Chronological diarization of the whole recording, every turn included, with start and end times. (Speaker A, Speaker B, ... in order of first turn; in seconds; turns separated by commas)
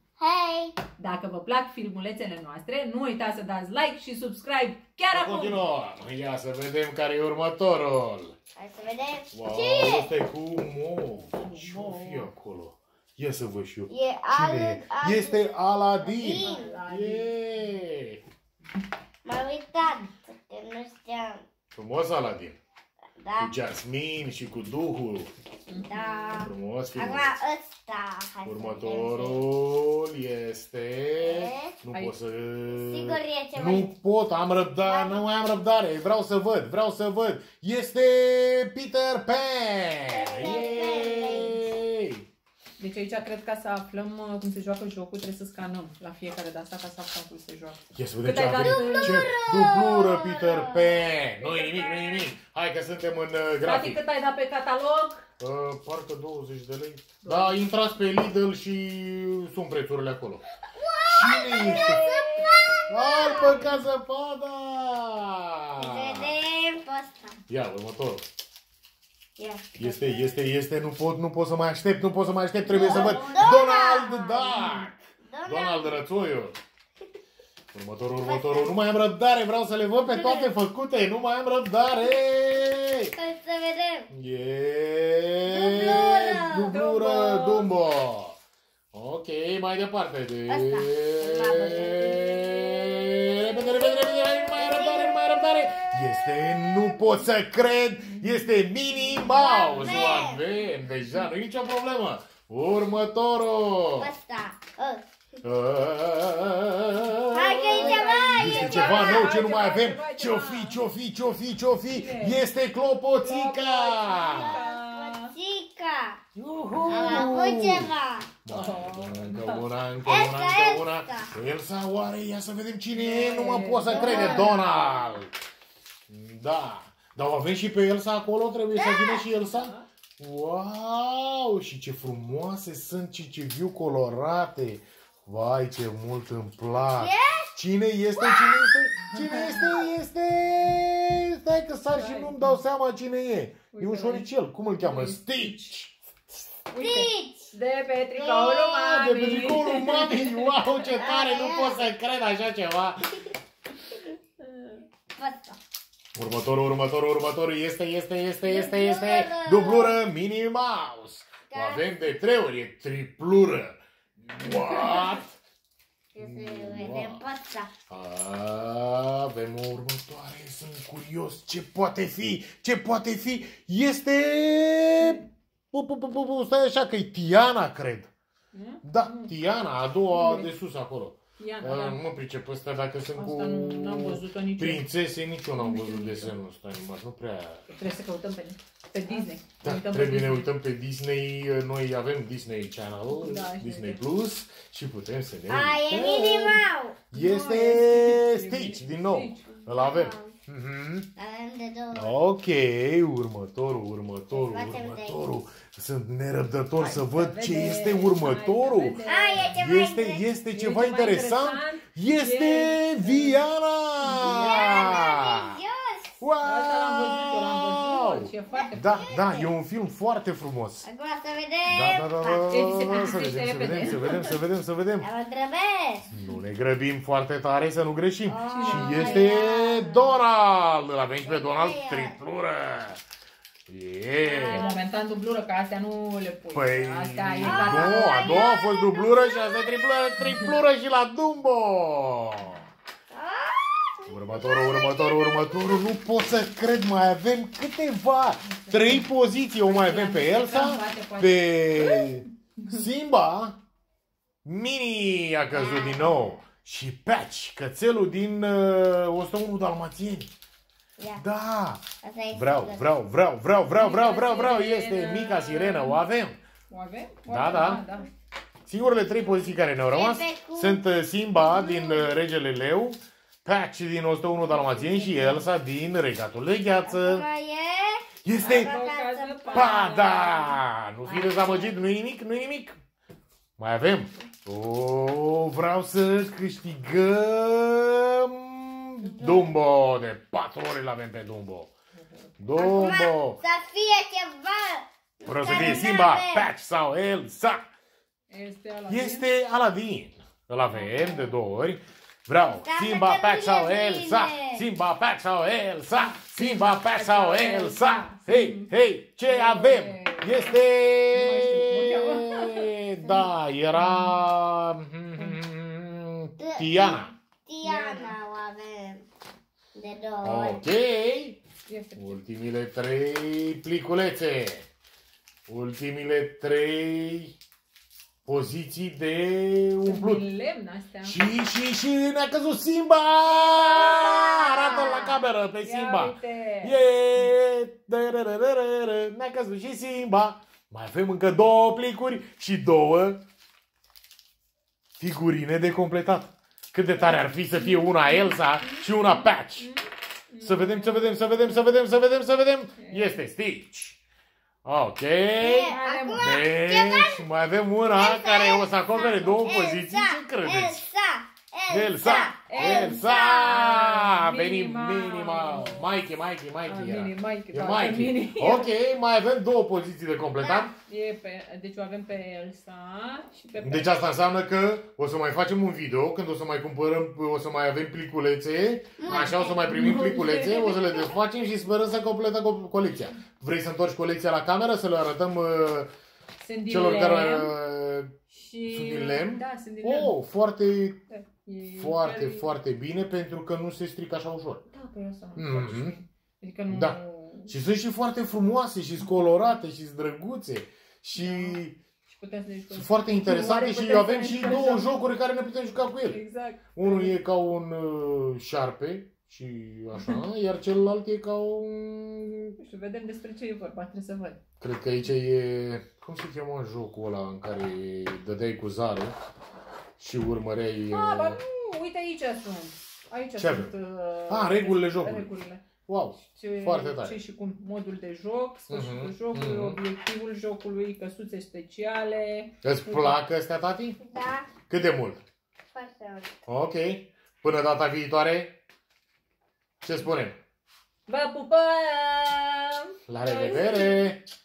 Speaker A: 0.2-0.8, Speaker B: 1.0-5.6, Speaker C: 5.1-8.3, Speaker A: 8.6-10.1, Speaker C: 9.3-18.2, Speaker B: 11.1-12.3, Speaker A: 13.9-15.4, Speaker A: 16.0-16.8, Speaker B: 16.3-17.8, Speaker A: 19.2-21.4, Speaker C: 21.7-22.6, Speaker A: 23.2-23.5, Speaker C: 23.4-25.3, Speaker B: 25.7-26.2, Speaker A: 25.8-29.4, Speaker C: 26.4-27.4, Speaker C: 28.4-42.2, Speaker A: 31.2-31.8, Speaker A: 32.7-33.9, Speaker A: 34.8-35.3, Speaker A: 40.1-41.6, Speaker B: 42.8-49.3, Speaker C: 47.9-54.0, Speaker A: 48.5-51.1, Speaker B: 51.4-52.3, Speaker B: 53.6-55.2, Speaker C: 55.4-60.4, Speaker B: 57.2-57.7, Speaker A: 60.6-63.7, Speaker C: 61.1-62.1, Speaker B: 61.5-62.5, Speaker C: 62.9-66.4, Speaker B: 63.4-63.7, Speaker A: 65.8-67.4, Speaker C: 67.5-68.2, Speaker A: 69.4-70.4, Speaker C: 69.8-76.6, Speaker B: 72.6-73.6, Speaker A: 72.7-76.0, Speaker C: 77.7-83.1, Speaker A: 78.2-78.8, Speaker A: 80.0-80.5, Speaker A: 83.1-84.1, Speaker C: 84.1-88.4, Speaker A: 85.5-86.8, Speaker B: 86.7-87.7, Speaker C: 88.9-104.1, Speaker A: 90.5-92.6, Speaker A: 93.4-97.1, Speaker B: 98.0-100.2, Speaker A: 99.3-100.5, Speaker A: 104.0-105.0, Speaker C: 105.4-114.6, Speaker A: 107.3-109.3, Speaker B: 107.7-110.8, Speaker B: 111.9-112.4, Speaker B: 113.2-115.3, Speaker A: 114.0-116.2, Speaker C: 116.3-117.9, Speaker A: 116.8-118.4, Speaker C: 118.4-125.3, Speaker B: 118.5-119.7, Speaker A: 120.0-121.3, Speaker B: 122.9-124.7, Speaker A: 123.8-124.6, Speaker C: 126.1-145.9, Speaker A: 128.7-129.3, Speaker B: 129.5-129.8, Speaker A: 136.9-137.6, Speaker A: 138.2-138.8, Speaker B: 139.1-139.7, Speaker B: 141.9-142.6, Speaker B: 143.7-145.7, Speaker B: 146.7-150.8, Speaker A: 146.8-147.5, Speaker C: 148.2-153.1, Speaker A: 150.9-151.9, Speaker B: 154.4-154.8, Speaker A: 155.2-155.6, Speaker C: 156.1-165.4, Speaker A: 158.4-160.0, Speaker A: 161.5-162.1, Speaker A: 166.1-167.7, Speaker C: 166.2-167.2, Speaker C: 167.9-178.1, Speaker B: 175.0-175.2, Speaker B: 178.5-179.4, Speaker C: 178.8-187.6, Speaker B: 180.1-180.5, Speaker B: 181.4-182.0, Speaker B: 183.1-184.8, Speaker B: 185.6-186.3, Speaker B: 187.7-190.5, Speaker C: 189.6-201.1, Speaker B: 193.1-194.0, Speaker A: 195.5-197.6, Speaker B: 197.1-199.4, Speaker A: 199.4-200.3, Speaker A: 201.2-202.2, Speaker C: 201.9-215.4, Speaker A: 204.3-205.2, Speaker B: 206.8-209.5, Speaker A: 209.1-210.2, Speaker B: 210.5-213.4, Speaker B: 214.0-215.1, Speaker A: 214.1-216.2, Speaker C: 216.2-220.9, Speaker B: 216.4-219.0, Speaker A: 218.5-219.5, Speaker A: 220.8-223.1, Speaker C: 221.6-225.1, Speaker B: 222.5-224.3, Speaker A: 225.0-226.1, Speaker C: 226.1-233.0, Speaker A: 228.3-230.2, Speaker B: 228.5-229.4, Speaker A: 231.3-232.2, Speaker C: 233.7-234.6, Speaker A: 234.2-234.9, Speaker B: 234.4-238.4, Speaker C: 236.5-242.6, Speaker A: 237.4-239.9, Speaker A: 243.1-245.9, Speaker C: 244.1-253.6, Speaker B: 248.4-252.8, Speaker C: 254.4-260.3, Speaker A: 255.5-256.4, Speaker A: 261.0-261.2, Speaker C: 261.1-266.4, Speaker A: 262.0-262.9, Speaker B: 263.7-266.0, Speaker B: 266.7-268.1, Speaker C: 267.3-267.8, Speaker C: 268.6-277.2, Speaker B: 269.1-269.6, Speaker A: 269.9-270.8, Speaker A: 271.4-272.2, Speaker B: 274.4-275.5, Speaker A: 276.8-279.8, Speaker C: 278.2-278.8, Speaker B: 278.4-281.8, Speaker C: 279.5-282.8, Speaker C: 283.6-291.7, Speaker A: 289.0-289.6, Speaker B: 291.9-292.4, Speaker C: 292.4-293.4, Speaker A: 292.5-296.5, Speaker C: 295.2-297.7, Speaker B: 295.5-295.9, Speaker B: 298.3-299.3, Speaker C: 298.9-317.1, Speaker B: 300.6-301.4, Speaker A: 302.4-304.7, Speaker B: 305.9-312.7, Speaker A: 313.0-313.3, Speaker B: 313.7-314.2, Speaker A: 316.4-319.1, Speaker B: 317.6-318.1, Speaker A: 319.7-320.6, Speaker C: 320.2-321.4, Speaker B: 321.6-322.2, Speaker C: 321.9-324.7, Speaker C: 325.5-327.4, Speaker C: 328.2-330.2, Speaker B: 329.8-331.2, Speaker C: 331.0-343.2, Speaker A: 333.6-335.2, Speaker B: 335.6-336.8, Speaker C: 345.0-349.7, Speaker B: 346.9-351.8, Speaker C: 350.4-354.0, Speaker B: 352.8-353.2, Speaker C: 354.6-360.9, Speaker A: 355.4-357.2, Speaker B: 355.6-356.4, Speaker A: 357.9-363.6, Speaker B: 358.9-359.5, Speaker C: 361.7-370.7, Speaker B: 362.5-365.9, Speaker B: 366.6-368.7, Speaker A: 370.4-370.7, Speaker B: 370.9-374.0, Speaker C: 373.6-385.9, Speaker A: 379.0-379.6, Speaker B: 379.1-381.1, Speaker B: 386.4-387.6, Speaker C: 386.7-391.0, Speaker B: 388.3-390.1, Speaker B: 391.1-392.5, Speaker C: 391.7-394.6, Speaker B: 394.7-397.6, Speaker C: 395.4-396.0, Speaker C: 396.7-401.8, Speaker B: 401.1-404.9, Speaker C: 402.7-406.2, Speaker B: 406.1-407.2, Speaker C: 406.7-412.6, Speaker B: 412.6-414.4, Speaker C: 414.6-419.1, Speaker C: 420.0-421.4, Speaker B: 420.9-425.6, Speaker C: 423.4-423.7, Speaker C: 424.3-427.2, Speaker B: 426.2-433.2, Speaker C: 428.7-429.8, Speaker C: 432.6-434.0, Speaker A: 434.0-434.5, Speaker C: 434.7-435.2, Speaker A: 435.7-436.4, Speaker C: 436.5-438.6, Speaker C: 439.8-440.4, Speaker B: 441.1-444.1, Speaker C: 443.1-444.2